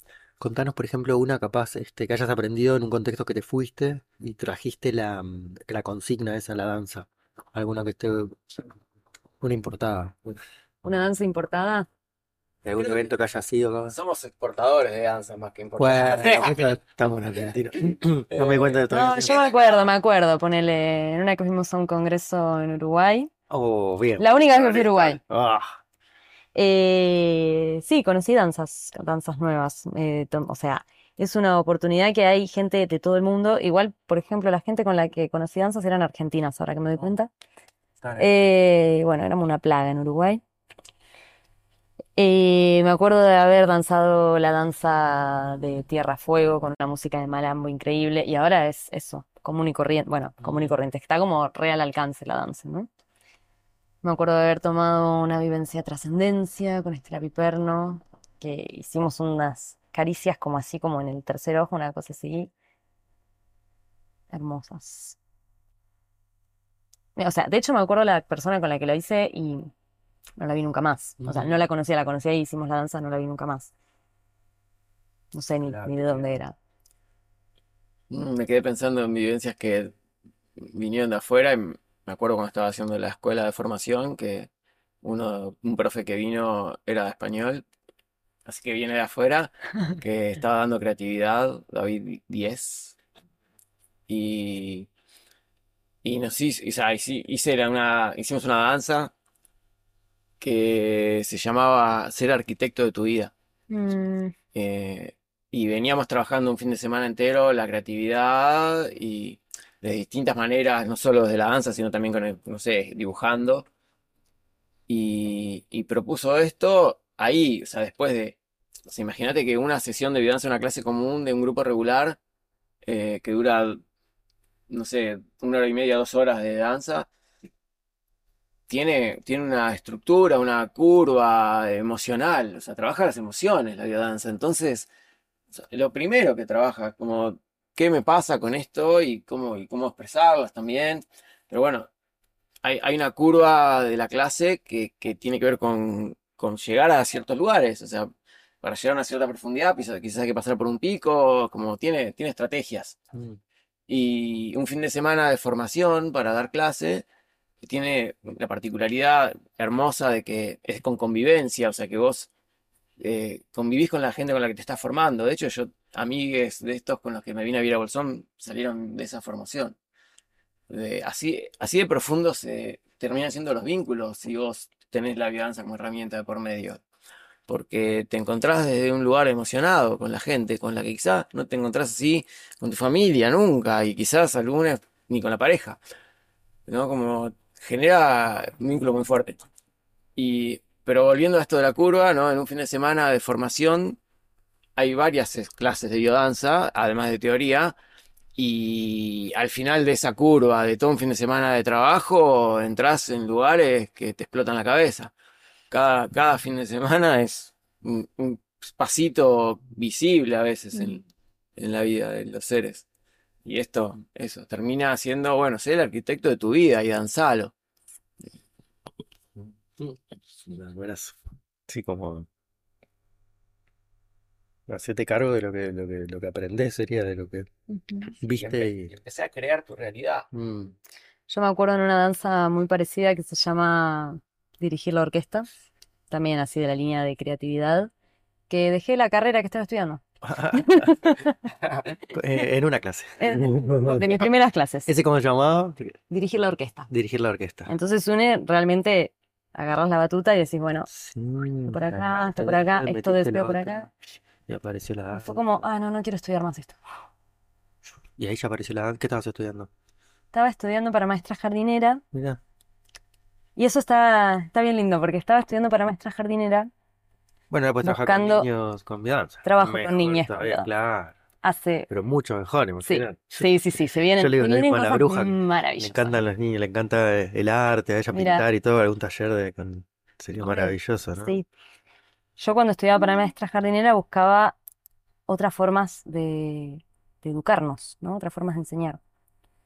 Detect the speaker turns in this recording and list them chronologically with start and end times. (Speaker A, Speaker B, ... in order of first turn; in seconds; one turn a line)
Speaker A: 0.4-8.4
Speaker A: 9.4-10.4
Speaker B: 10.8-11.9
Speaker A: 12.6-13.9
Speaker C: 12.8-13.1
Speaker C: 13.9-16.6
Speaker A: 15.8-19.3
Speaker C: 18.3-19.9
Speaker B: 18.9-23.3
Speaker A: 23.5-24.3
Speaker B: 24.2-25.2
Speaker C: 24.3-25.1
Speaker A: 25.2-25.8
Speaker B: 26.6-37.3
Speaker A: 38.0-38.5
Speaker B: 38.2-40.4
Speaker B: 42.2-52.9
Speaker B: 54.0-62.5
Speaker B: 64.3-65.2
Speaker B: 67.2-69.7
Speaker B: 70.4-73.7
Speaker A: 71.2-71.6
Speaker B: 75.3-76.6
Speaker A: 75.6-76.4
Speaker C: 78.1-79.9
Speaker C: 80.6-84.5
Speaker C: 85.0-87.7
Speaker C: 88.5-93.0
Speaker C: 94.1-94.9
Speaker C: 96.0-99.1
Speaker C: 100.4-103.3
Speaker B: 103.7-104.3
Speaker C: 104.5-113.7
Speaker C: 114.9-122.2
Speaker C: 122.8-123.8
Speaker C: 124.7-127.1
Speaker C: 128.7-134.9
Speaker C: 135.6-141.9
Speaker C: 142.6-148.1
Speaker C: 148.6-153.0
Speaker A: 153.1-153.4
Speaker C: 153.9-157.1
Speaker C: 157.6-162.3
Speaker C: 163.0-169.8
Speaker C: 170.7-176.8
Speaker C: 177.5-185.8
Speaker C: 186.7-189.4
Speaker C: 190.2-194.0
Speaker C: 194.8-197.8
Speaker C: 198.4-205.1
Speaker C: 205.7-211.0
Speaker C: 211.6-212.8
Speaker C: 213.4-217.5
Speaker A: 219.8-222.3
Speaker A: 224.7-227.5
Speaker B: 227.7-228.1
Speaker A: 228.2-228.9
Speaker C: 228.4-230.3
Speaker A: 230.3-230.8
Speaker B: 231.3-235.5
Speaker B: 236.1-237.9
Speaker B: 238.5-240.0
Speaker A: 240.2-241.2
Speaker B: 240.5-241.5
Speaker A: 242.0-244.2
Speaker B: 243.2-244.9
Speaker A: 244.9-246.0
Speaker B: 246.1-246.9
Speaker A: 246.9-247.7
Speaker B: 247.7-250.9
Speaker A: 250.9-253.8
Speaker B: 251.7-253.9
Speaker A: 254.5-255.7
Speaker B: 255.1-256.8
Speaker A: 258.2-259.7
Speaker B: 260.3-262.0
Speaker A: 262.1-262.4
Speaker B: 263.6-266.7
Speaker A: 267.5-271.1
Speaker B: 267.8-268.5
Speaker B: 269.4-270.7
Speaker B: 271.4-271.9
Speaker A: 271.9-281.4
Speaker B: 272.8-276.2
Speaker B: 278.1-278.4
Speaker B: 280.4-281.5
Speaker B: 282.4-284.6
Speaker B: 285.3-289.0